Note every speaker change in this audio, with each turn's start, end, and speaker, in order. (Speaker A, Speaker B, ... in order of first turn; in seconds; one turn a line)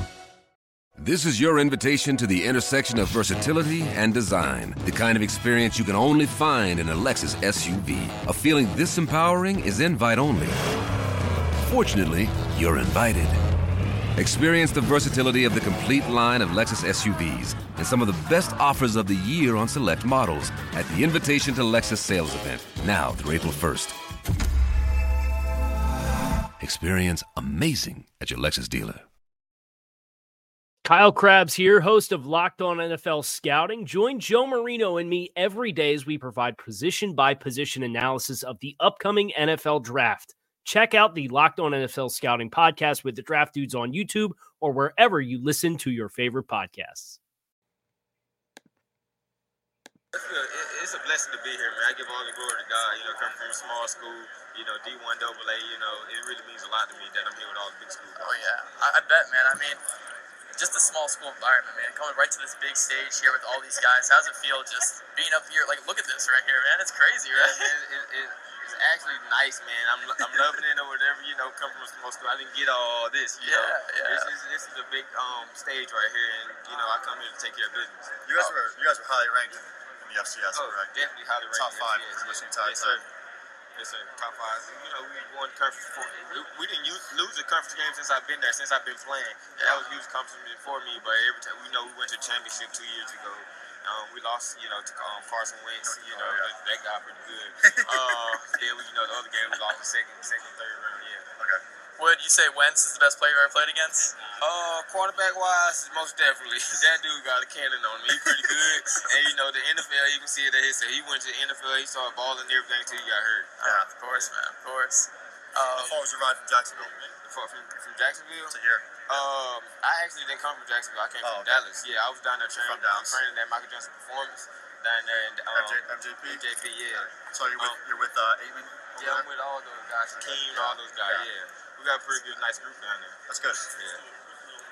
Speaker A: 1.0-10.6
Speaker A: 11.7-13.4
Speaker A: 14.2-24.0
Speaker A: 26.6-29.0
Speaker B: 30.8-47.2
Speaker C: 50.1-58.4
Speaker D: 58.2-59.8
Speaker D: 60.5-67.7
Speaker C: 67.3-78.1
Speaker D: 73.4-74.3
Speaker E: 78.2-81.0
Speaker C: 80.5-83.1
Speaker E: 81.5-83.0
Speaker C: 83.8-101.3
Speaker D: 89.6-89.8
Speaker E: 95.8-96.5
Speaker E: 97.6-98.4
Speaker D: 102.0-104.2
Speaker C: 104.4-114.3
Speaker D: 113.6-116.0
Speaker E: 113.6-113.9
Speaker E: 115.7-117.0
Speaker C: 117.2-127.8
Speaker E: 118.5-119.2
Speaker E: 121.2-121.7
Speaker E: 122.6-123.2
Speaker E: 125.5-129.3
Speaker C: 129.0-133.2
Speaker E: 130.1-131.3
Speaker E: 133.3-133.6
Speaker C: 133.8-134.0